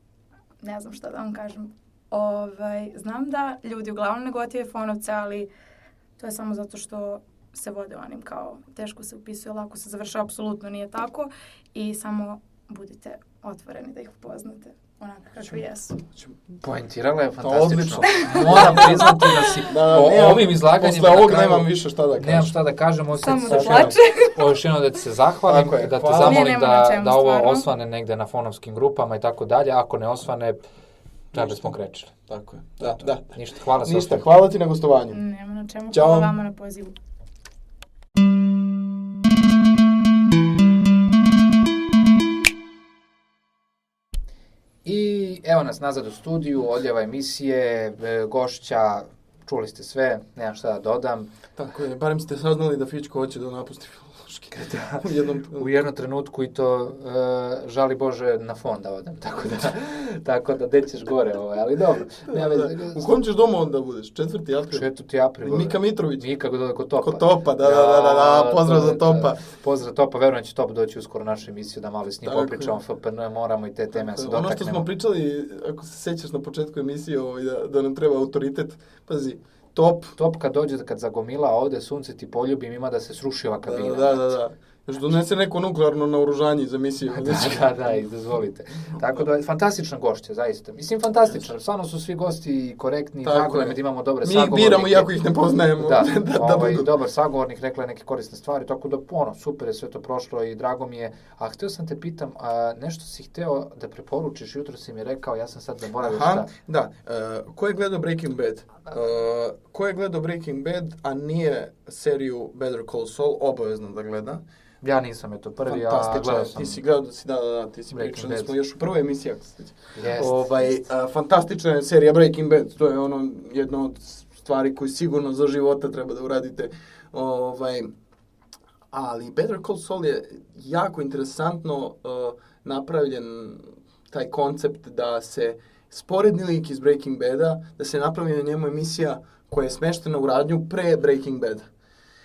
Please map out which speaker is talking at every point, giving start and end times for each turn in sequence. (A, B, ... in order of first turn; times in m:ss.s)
0:00.6-0:05.5 A
0:06.2-0:16.0 A
0:16.6-0:30.6 B
0:17.4-0:19.1 C
0:18.0-0:19.7 A
0:19.6-0:22.5 C
0:23.2-0:24.5 A
0:23.5-0:23.9 C
0:25.4-0:26.5 C
0:26.2-0:27.6 A
0:31.3-0:32.2 B
0:31.3-0:31.6 C
0:32.3-0:35.2 C
0:32.8-0:34.2 B
0:35.1-0:36.9 A
0:35.9-0:36.3 C
0:44.8-0:51.3 B
0:51.6-0:55.7 C
0:54.5-1:03.1 B
1:02.3-1:04.8 C
1:04.7-1:14.8 B
1:05.4-1:06.3 C
1:07.0-1:09.4 C
1:12.2-1:12.8 C
1:13.9-1:20.2 C
1:20.1-1:24.4 B
1:23.6-1:28.0 C
1:27.1-1:35.1 B
1:33.2-1:36.9 C
1:35.8-1:46.5 B
1:46.0-1:54.4 C
1:54.8-1:56.8 B
1:55.7-2:07.9 C
1:57.9-1:58.5 B
1:59.9-2:00.6 B
2:08.9-2:21.7 C